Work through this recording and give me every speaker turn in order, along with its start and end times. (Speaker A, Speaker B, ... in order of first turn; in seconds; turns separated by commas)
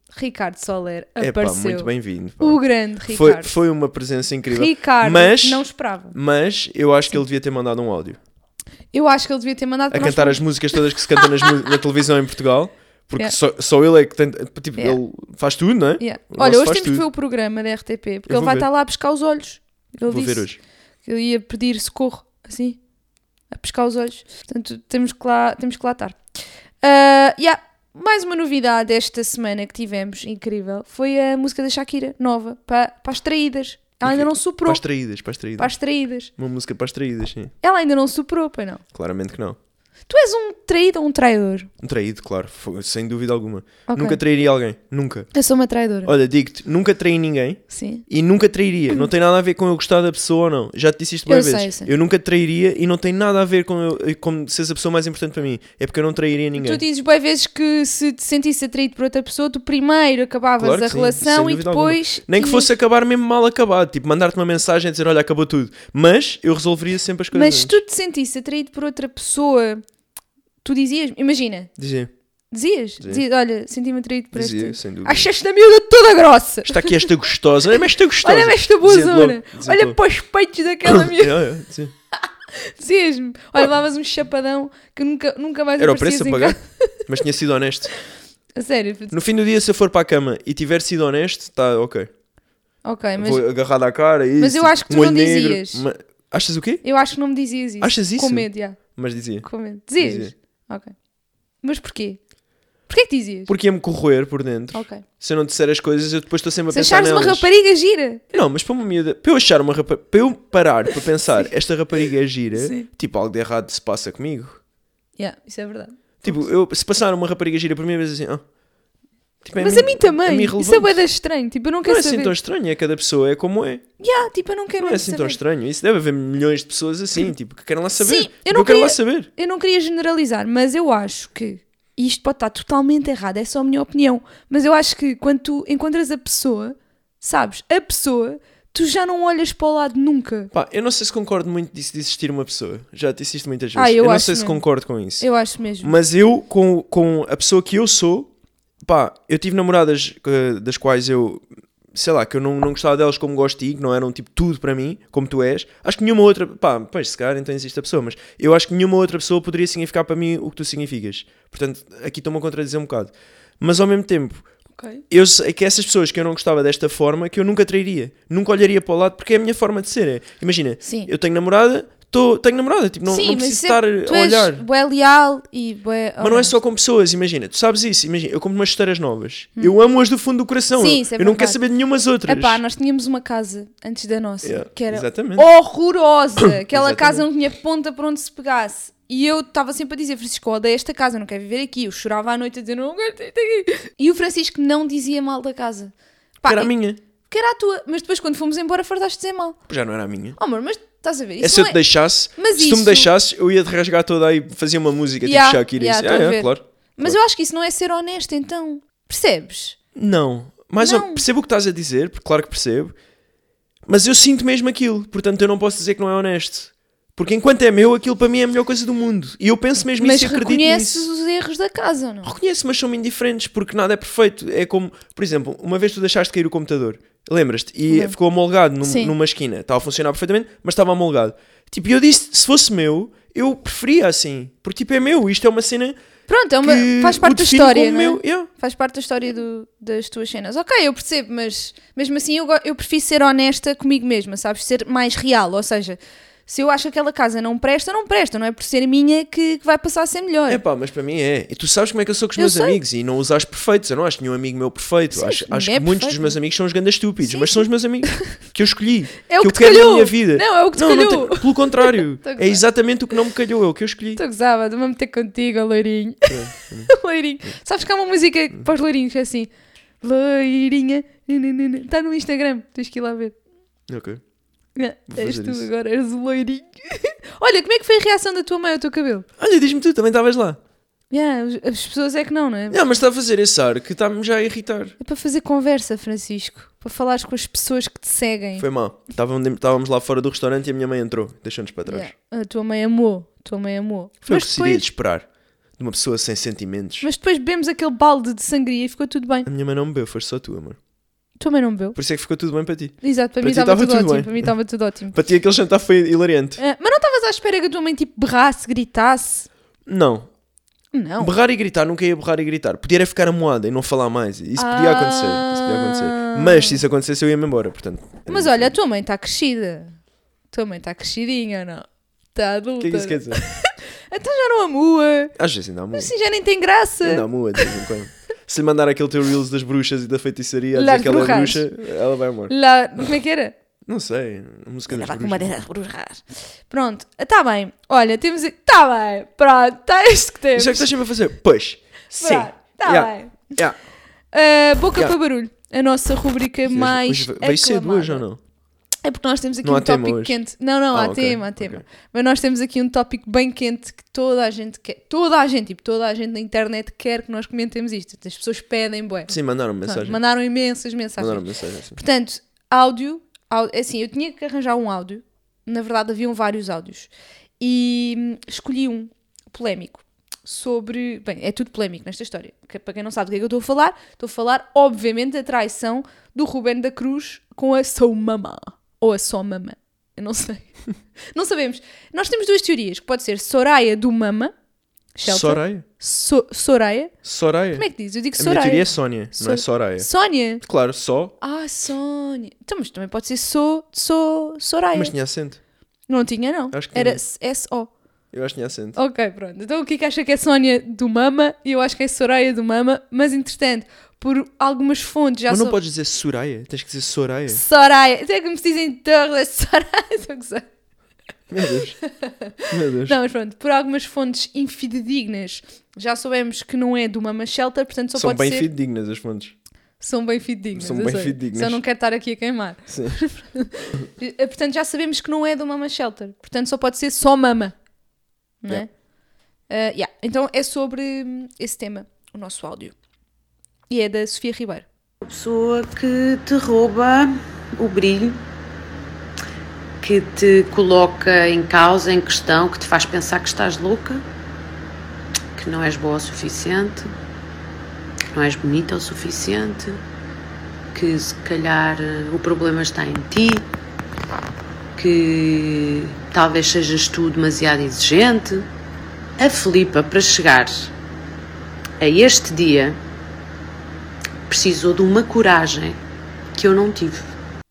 Speaker A: 0.1-3.5, Speaker B: 1.2-8.2, Speaker A: 4.5-6.2, Speaker A: 8.9-11.5, Speaker B: 9.9-17.1, Speaker A: 16.0-20.5, Speaker B: 18.3-18.7, Speaker B: 20.1-20.6, Speaker A: 21.1-22.8, Speaker A: 23.5-26.2, Speaker A: 26.8-34.8, Speaker B: 34.0-35.7, Speaker A: 35.6-36.3, Speaker B: 36.4-37.5, Speaker A: 37.6-38.8, Speaker B: 38.9-39.6, Speaker A: 40.1-41.7, Speaker B: 41.8-45.3, Speaker A: 43.9-44.2, Speaker A: 45.3-46.1, Speaker B: 46.0-56.8, Speaker A: 47.7-48.0, Speaker A: 51.3-51.9, Speaker A: 56.6-62.7, Speaker B: 60.6-67.8, Speaker A: 67.3-69.8, Speaker A: 70.6-71.7, Speaker B: 71.8-72.1, Speaker A: 72.5-77.1, Speaker B: 74.3-75.2, Speaker B: 76.7-80.0, Speaker A: 78.2-81.5, Speaker B: 80.8-81.9, Speaker A: 82.6-87.0, Speaker B: 85.8-87.9, Speaker A: 88.6-89.2, Speaker B: 89.1-92.1, Speaker A: 92.8-93.5, Speaker B: 93.2-96.8, Speaker A: 94.4-95.8, Speaker A: 96.8-98.8, Speaker B: 97.8-100.3, Speaker A: 99.4-100.9, Speaker A: 101.6-102.2, Speaker A: 102.9-103.5, Speaker B: 103.5-107.5, Speaker A: 104.7-105.0, Speaker A: 106.7-108.3, Speaker B: 108.3-114.6, Speaker A: 112.5-112.9, Speaker A: 115.2-116.5, Speaker B: 116.2-118.4, Speaker B: 119.4-121.0, Speaker A: 119.6-122.3, Speaker B: 121.9-123.9, Speaker A: 124.0-125.4, Speaker B: 124.8-129.3, Speaker A: 128.0-140.5, Speaker B: 140.5-145.3, Speaker A: 143.8-144.6, Speaker A: 145.2-146.0, Speaker B: 145.8-148.3, Speaker B: 148.8-164.4, Speaker A: 164.8-165.0, Speaker B: 165.1-174.7, Speaker A: 170.8-171.1, Speaker A: 173.1-176.6, Speaker B: 176.2-182.6, Speaker A: 180.8-181.6, Speaker A: 182.3-196.7, Speaker B: 184.4-185.5, Speaker B: 186.4-187.3, Speaker B: 196.5-197.0, Speaker A: 197.3-199.6, Speaker B: 199.7-200.4, Speaker A: 200.4-203.1, Speaker B: 201.4-207.2, Speaker A: 205.2-209.8, Speaker B: 209.9-212.9, Speaker A: 210.8-211.2, Speaker B: 213.9-221.1, Speaker A: 220.0-222.3, Speaker B: 222.2-236.0, Speaker A: 228.8-229.1, Speaker A: 236.3-250.6, Speaker B: 236.6-238.5, Speaker B: 250.5-264.2, Speaker A: 252.4-252.8, Speaker A: 255.1-256.4, Speaker A: 257.2-258.4, Speaker A: 259.3-262.6, Speaker A: 264.2-269.5, Speaker B: 266.3-267.5, Speaker A: 270.0-273.4, Speaker B: 273.9-274.2, Speaker A: 274.8-279.3, Speaker B: 275.1-275.7, Speaker B: 279.4-280.6, Speaker A: 281.1-282.8, Speaker B: 282.7-285.0, Speaker A: 285.0-288.7, Speaker B: 288.6-292.1, Speaker A: 291.9-294.9, Speaker B: 294.2-295.3, Speaker B: 295.8-297.1, Speaker A: 297.0-299.5, Speaker B: 299.5-300.8, Speaker A: 301.4-302.0, Speaker B: 302.0-304.5, Speaker A: 303.0-305.2, Speaker B: 305.1-306.6, Speaker A: 306.6-309.5, Speaker B: 309.9-310.3, Speaker A: 310.9-311.3, Speaker B: 311.2-318.7, Speaker A: 314.6-316.8, Speaker A: 318.3-320.0, Speaker A: 320.5-325.3, Speaker B: 322.8-323.4, Speaker B: 325.4-326.1, Speaker A: 325.9-327.7, Speaker B: 327.0-333.0, Speaker A: 330.7-331.7, Speaker A: 332.5-333.5, Speaker B: 333.9-335.5, Speaker A: 334.9-340.9, Speaker B: 340.6-343.8, Speaker A: 342.1-343.6, Speaker A: 344.3-348.2, Speaker B: 346.7-348.4, Speaker A: 349.0-359.3, Speaker B: 349.6-350.4, Speaker B: 350.9-351.8, Speaker B: 359.3-360.2, Speaker A: 359.9-380.7, Speaker B: 361.2-362.0, Speaker A: 381.3-384.5, Speaker A: 385.2-387.1, Speaker B: 385.2-385.9, Speaker B: 387.2-390.1, Speaker A: 387.8-390.6, Speaker B: 390.6-391.3, Speaker A: 391.4-395.1, Speaker B: 394.9-395.6, Speaker A: 396.1-397.9, Speaker B: 396.7-397.2, Speaker B: 398.3-399.0, Speaker A: 399.0-405.8, Speaker B: 405.5-407.6, Speaker A: 407.5-410.7, Speaker B: 411.5-412.0, Speaker A: 412.1-418.7, Speaker B: 412.7-413.2, Speaker B: 418.1-419.5, Speaker A: 420.0-427.8, Speaker B: 420.8-421.8, Speaker B: 422.9-423.2, Speaker A: 428.6-428.9, Speaker A: 429.7-432.9, Speaker A: 433.9-434.9, Speaker C: 435.2-438.4, Speaker C: 440.0-444.2, Speaker C: 445.6-447.1, Speaker C: 448.3-450.0, Speaker C: 450.9-453.7, Speaker C: 455.0-458.7, Speaker C: 459.4-460.9, Speaker C: 462.0-463.0, Speaker C: 464.5-466.0, Speaker C: 466.6-467.3